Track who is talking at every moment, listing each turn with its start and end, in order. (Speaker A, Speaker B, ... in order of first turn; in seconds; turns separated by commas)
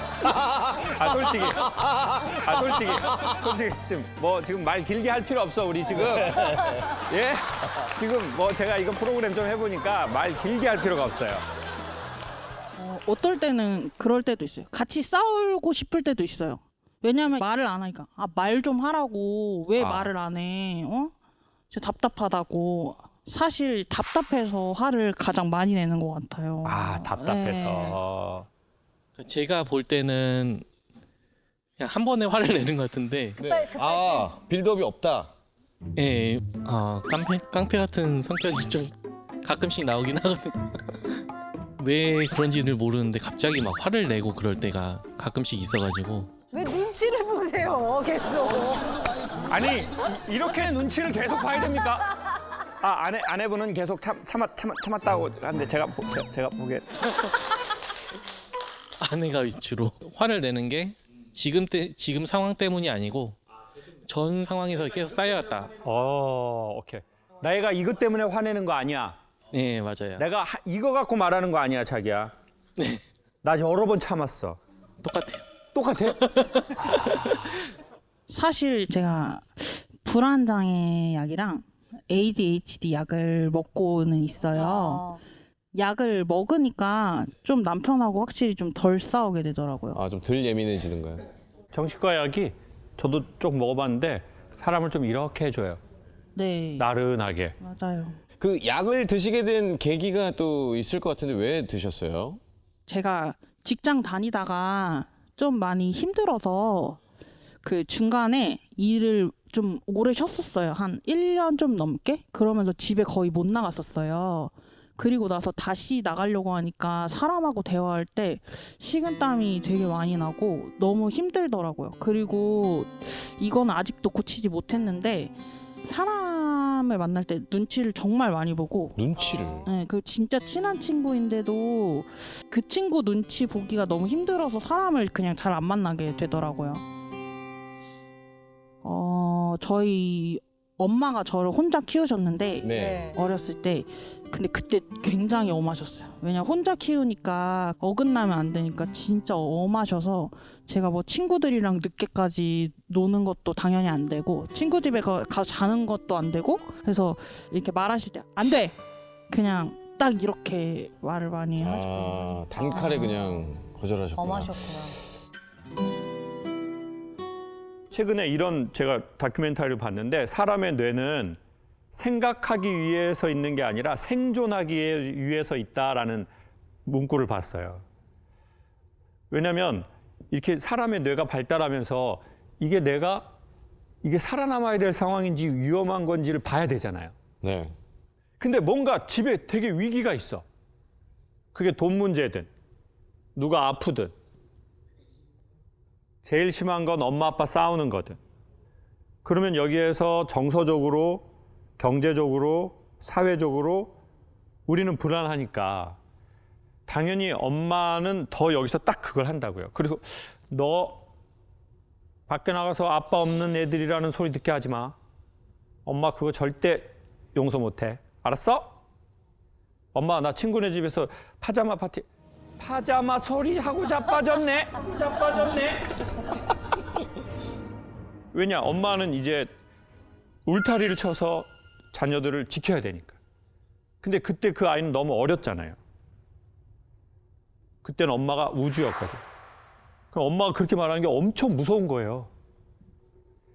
Speaker A: 0.5-0.9, Speaker B: 0.8-11.4, Speaker A: 1.8-2.1, Speaker A: 6.4-6.7, Speaker C: 12.7-21.1, Speaker B: 19.8-20.1, Speaker C: 21.7-28.0, Speaker B: 26.6-28.5, Speaker D: 29.2-30.6, Speaker D: 31.8-33.4, Speaker A: 33.4-35.3, Speaker E: 33.4-34.3, Speaker D: 36.0-41.2, Speaker D: 41.8-46.3, Speaker E: 46.5-48.9, Speaker A: 48.5-49.5, Speaker B: 49.5-52.2, Speaker B: 52.8-56.8, Speaker D: 59.0-63.4, Speaker D: 64.1-65.7, Speaker B: 65.8-69.2, Speaker D: 69.5-70.2, Speaker B: 70.2-72.3, Speaker B: 73.4-74.6, Speaker D: 75.0-75.5, Speaker B: 75.7-76.3, Speaker D: 76.2-77.5, Speaker C: 78.3-85.1, Speaker E: 84.5-85.2, Speaker C: 85.8-90.0, Speaker A: 89.9-91.2, Speaker B: 91.7-95.8, Speaker C: 96.3-96.9, Speaker B: 96.8-97.6, Speaker C: 97.6-98.2, Speaker A: 98.4-102.4, Speaker C: 102.9-107.0, Speaker C: 107.6-125.3, Speaker C: 125.8-129.0, Speaker A: 129.0-129.7, Speaker C: 129.7-136.8, Speaker C: 138.8-158.8, Speaker A: 142.6-143.0, Speaker E: 142.7-143.2, Speaker C: 159.3-162.1, Speaker A: 161.6-164.8, Speaker E: 162.6-163.5, Speaker E: 164.2-165.0, Speaker B: 167.9-171.4, Speaker B: 171.9-176.3, Speaker B: 176.9-177.8, Speaker B: 179.3-183.3, Speaker B: 184.0-187.1, Speaker A: 187.4-187.8, Speaker B: 188.4-190.4, Speaker B: 191.5-192.5, Speaker B: 193.4-194.1, Speaker B: 196.2-198.2, Speaker B: 199.2-201.3, Speaker B: 201.8-203.9, Speaker B: 204.7-206.0, Speaker B: 206.9-211.1, Speaker B: 212.3-215.0, Speaker B: 215.9-218.8, Speaker B: 219.9-222.1, Speaker B: 222.6-225.8, Speaker B: 228.3-229.5, Speaker B: 230.5-233.2, Speaker B: 234.0-235.8, Speaker B: 237.8-239.2, Speaker B: 240.1-242.3